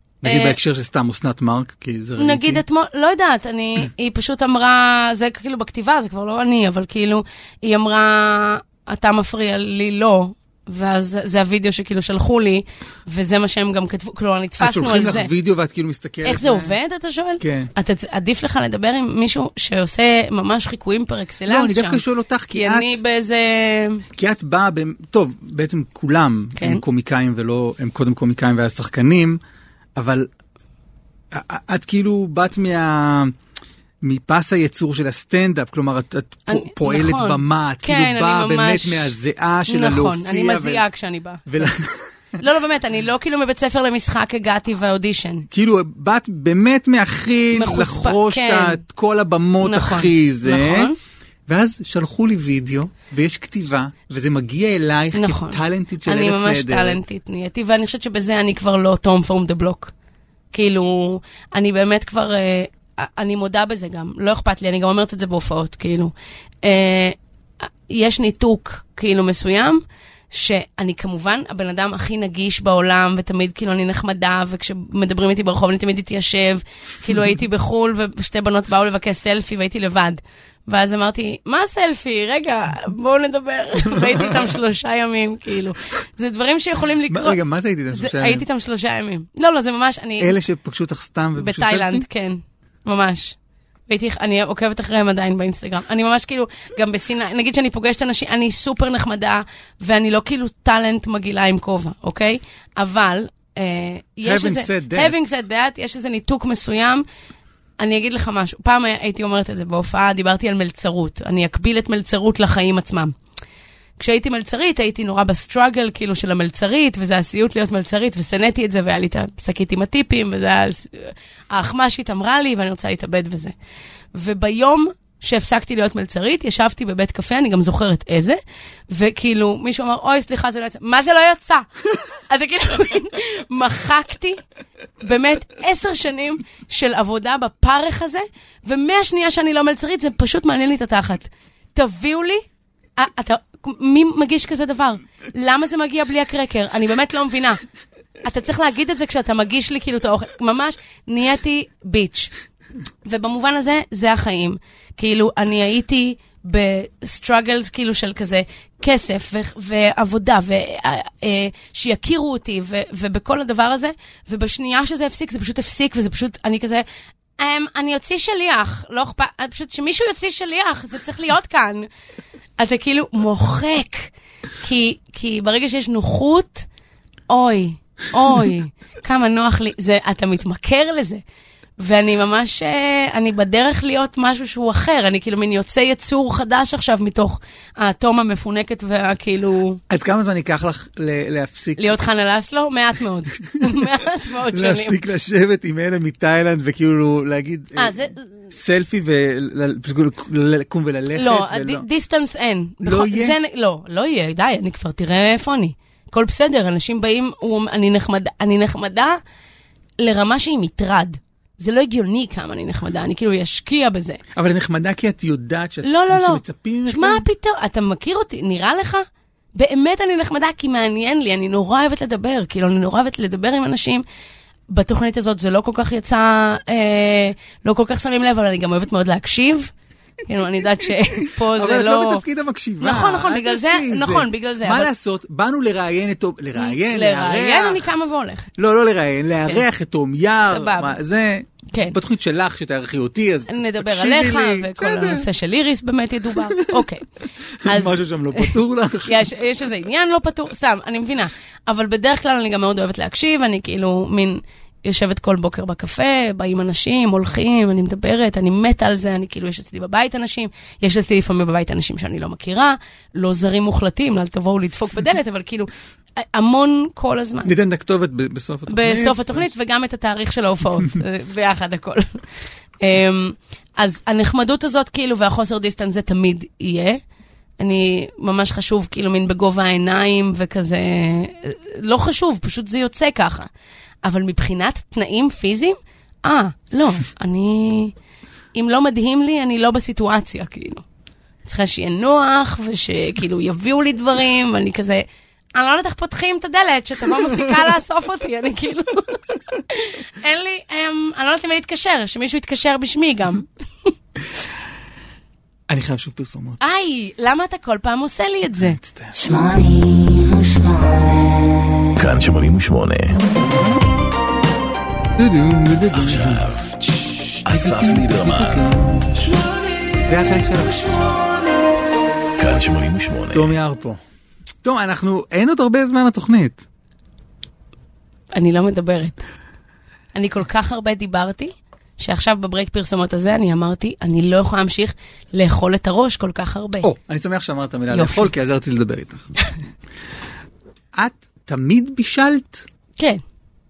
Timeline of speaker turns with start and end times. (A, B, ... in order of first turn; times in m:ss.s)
0:00.2-0:02.6 A
0:00.2-0:00.6 B
0:02.2-0:15.3 B
0:14.6-0:16.8 A
0:16.2-0:24.0 B
0:17.4-0:17.7 A
0:21.5-0:23.0 A
0:24.1-0:29.4 A
0:26.6-0:26.8 B
0:30.0-0:30.3 A
0:31.3-0:33.4 A
0:34.0-0:40.8 A
0:36.5-0:39.2 B
0:39.7-0:41.7 B
0:41.5-0:42.1 A
0:42.4-0:45.5 B
0:45.5-0:50.9 A
0:47.5-0:48.8 B
0:49.6-0:51.0 B
0:51.5-0:57.0 A
0:55.1-0:59.9 B
1:00.5-1:07.2 B
1:07.9-1:27.4 B
1:23.9-1:24.3 A
1:27.1-1:28.4 A
1:27.9-1:30.4 B
1:30.2-1:32.0 A
1:31.4-1:33.4 B
1:33.9-1:47.0 B
1:44.2-1:45.3 A
1:47.8-1:53.1 B
1:54.0-2:03.5 B
2:04.1-2:11.7 B
2:12.3-2:14.4 B
2:15.0-2:22.4 B
2:23.0-2:27.6 B
2:28.2-2:32.3 B
2:33.0-2:46.8 B
2:47.4-2:51.9 B
2:52.6-2:56.7 B
2:57.3-3:01.2 B
3:01.8-3:09.8 B
3:09.9-3:12.0 A
3:11.8-3:15.0 B
3:13.5-3:21.8 A
3:17.8-3:18.5 B
3:21.1-3:29.2 B
3:22.8-3:23.4 A
3:30.0-3:34.2 B
3:34.4-3:37.3 A
3:35.8-3:44.0 B
3:44.7-3:49.7 B
3:50.2-3:52.2 B
3:51.2-3:57.9 A
3:52.8-3:54.9 B
3:56.6-3:58.5 B
3:58.6-4:05.3 A
4:00.5-4:01.0 B
4:01.7-4:02.0 B
4:03.5-4:07.1 B
4:06.3-4:06.9 A
4:07.6-4:09.3 A
4:07.6-4:27.5 B
4:27.4-4:29.5 A
4:28.7-4:32.2 B
4:32.8-4:37.0 B
4:37.6-4:43.5 B
4:44.0-4:47.9 B
4:48.5-4:50.8 B
4:51.4-5:03.9 B
5:05.7-5:06.6 A
5:06.6-5:08.8 B
5:08.6-5:09.3 A
5:12.0-5:13.2 C
5:15.2-5:19.4 A
5:15.9-5:16.7 C
5:17.4-5:18.7 C
5:20.0-5:21.2 A
5:22.4-5:23.6 C
5:23.3-5:24.0 A
5:24.6-5:26.6 A
5:28.3-5:29.2 B
5:30.1-5:36.9 B
5:36.8-5:39.3 A
5:37.9-5:38.3 B
5:41.0-5:42.7 A